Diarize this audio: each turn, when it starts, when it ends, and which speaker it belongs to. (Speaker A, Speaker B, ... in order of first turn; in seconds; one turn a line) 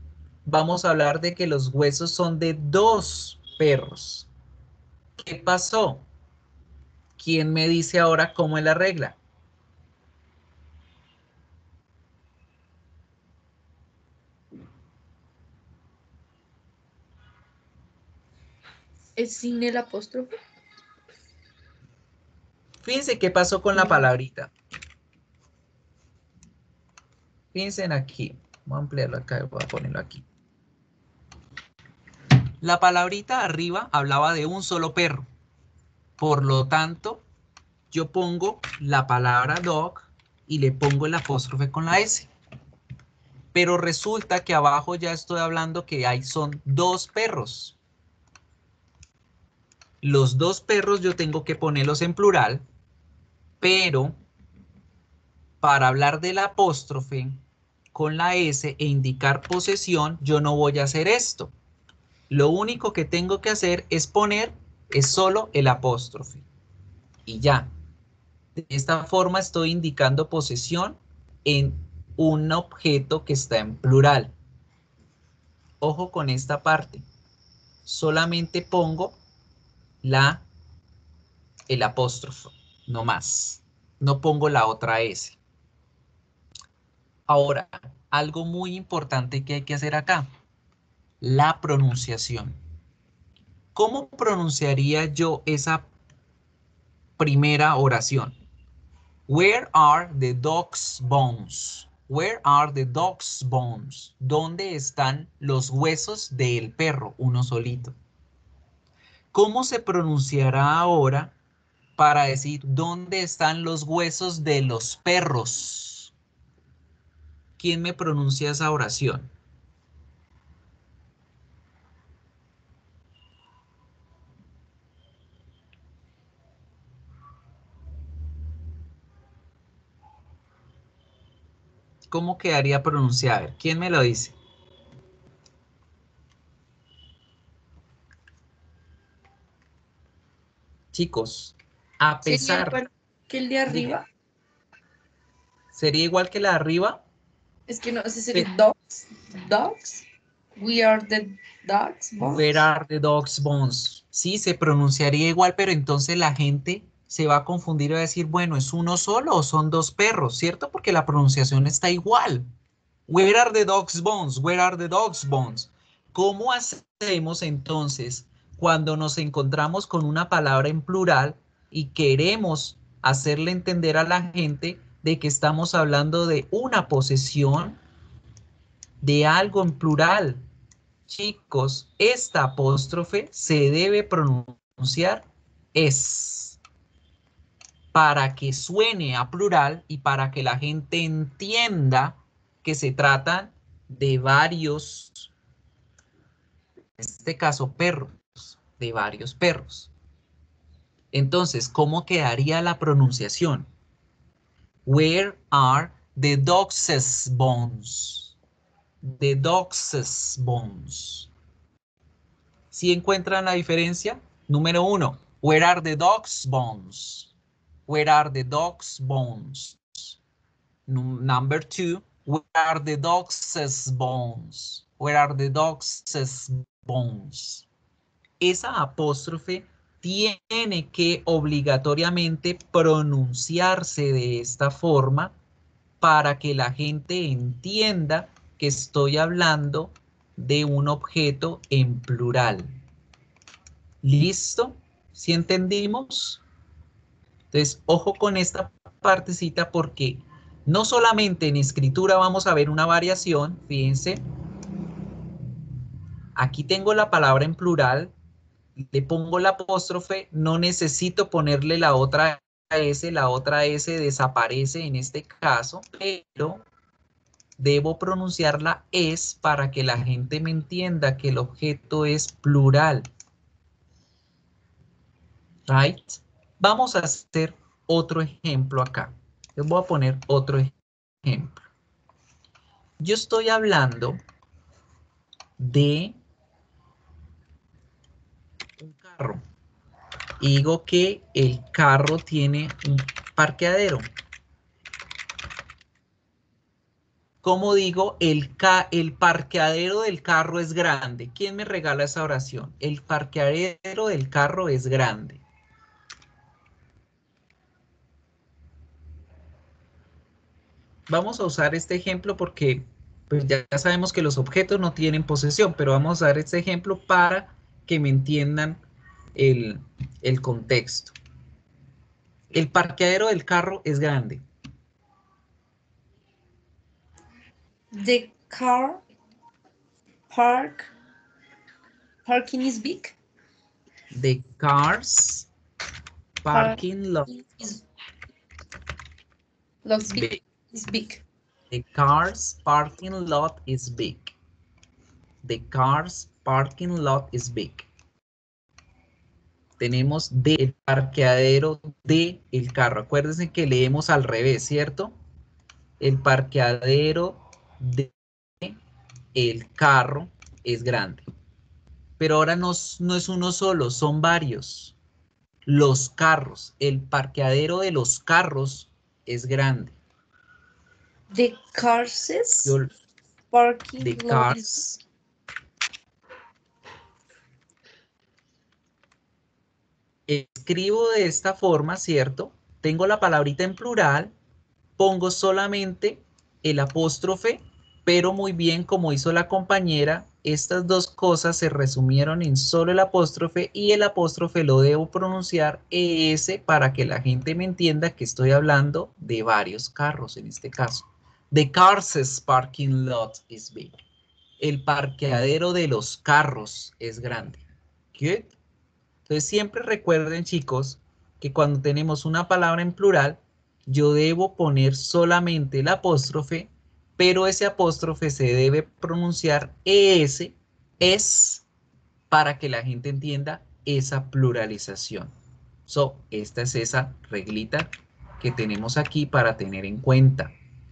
Speaker A: 0.4-4.3
Speaker A: 5.2-6.0
Speaker A: 7.2-9.2
Speaker B: 19.1-20.3
Speaker A: 22.8-24.5
Speaker B: 23.8-24.0
Speaker A: 27.5-30.2
Speaker A: 32.6-35.2
Speaker A: 36.2-37.2
Speaker A: 37.9-42.3
Speaker A: 43.5-47.8
Speaker A: 50.0-52.6
Speaker A: 53.6-54.2
Speaker A: 55.6-57.4
Speaker A: 57.9-61.5
Speaker A: 62.3-66.4
Speaker A: 67.2-67.7
Speaker A: 68.5-74.3
Speaker A: 75.8-77.0
Speaker A: 77.8-79.2
Speaker A: 80.0-80.4
Speaker A: 81.7-85.4
Speaker A: 87.3-90.3
Speaker A: 91.2-92.6
Speaker A: 93.7-95.9
Speaker A: 97.2-98.3
Speaker A: 99.3-107.9
Speaker A: 109.3-111.3
Speaker A: 112.0-116.1
Speaker A: 117.6-119.3
Speaker A: 132.1-134.3
Speaker A: 140.9-142.8
Speaker B: 142.2-144.0
Speaker A: 143.7-144.0
Speaker A: 145.7-147.0
Speaker B: 147.7-150.0
Speaker B: 150.6-152.7
Speaker A: 152.2-162.5
Speaker A: 163.1-177.8
Speaker A: 179.0-180.4
Speaker A: 181.1-186.6
Speaker A: 187.9-195.3
Speaker A: 197.0-199.9
Speaker A: 201.1-203.7
Speaker A: 204.8-208.3
Speaker A: 209.0-211.3
Speaker A: 212.7-217.3
Speaker A: 217.9-220.2
Speaker A: 220.9-227.7
Speaker A: 228.4-235.3
Speaker A: 236.0-242.7
Speaker A: 244.0-246.4
Speaker A: 247.5-254.2
Speaker A: 256.4-258.1
Speaker A: 258.9-266.6
Speaker A: 267.6-273.1
Speaker A: 275.7-280.7
Speaker A: 281.2-281.7
Speaker A: 283.0-284.2
Speaker A: 285.6-286.2
Speaker A: 288.8-289.4
Speaker A: 290.4-294.1
Speaker A: 297.4-305.4
Speaker A: 311.1-318.8
Speaker A: 319.3-321.1
Speaker A: 322.5-324.4
Speaker B: 327.9-329.0
Speaker B: 330.3-330.9
Speaker B: 332.2-333.1
Speaker A: 334.1-335.5
Speaker A: 336.4-337.3
Speaker B: 336.5-337.8
Speaker B: 339.8-341.2
Speaker A: 340.0-340.4
Speaker A: 341.7-344.3
Speaker A: 345.4-347.9
Speaker A: 349.8-355.1
Speaker A: 356.0-358.8
Speaker A: 359.3-361.2
Speaker A: 362.2-364.9
Speaker A: 365.6-369.9
Speaker B: 371.3-372.8
Speaker A: 372.6-372.9
Speaker B: 373.5-375.0
Speaker A: 374.0-374.8
Speaker A: 380.3-384.3
Speaker A: 385.0-403.9
Speaker A: 404.6-408.5
Speaker A: 409.3-421.6
Speaker A: 422.3-425.3
Speaker A: 425.9-430.5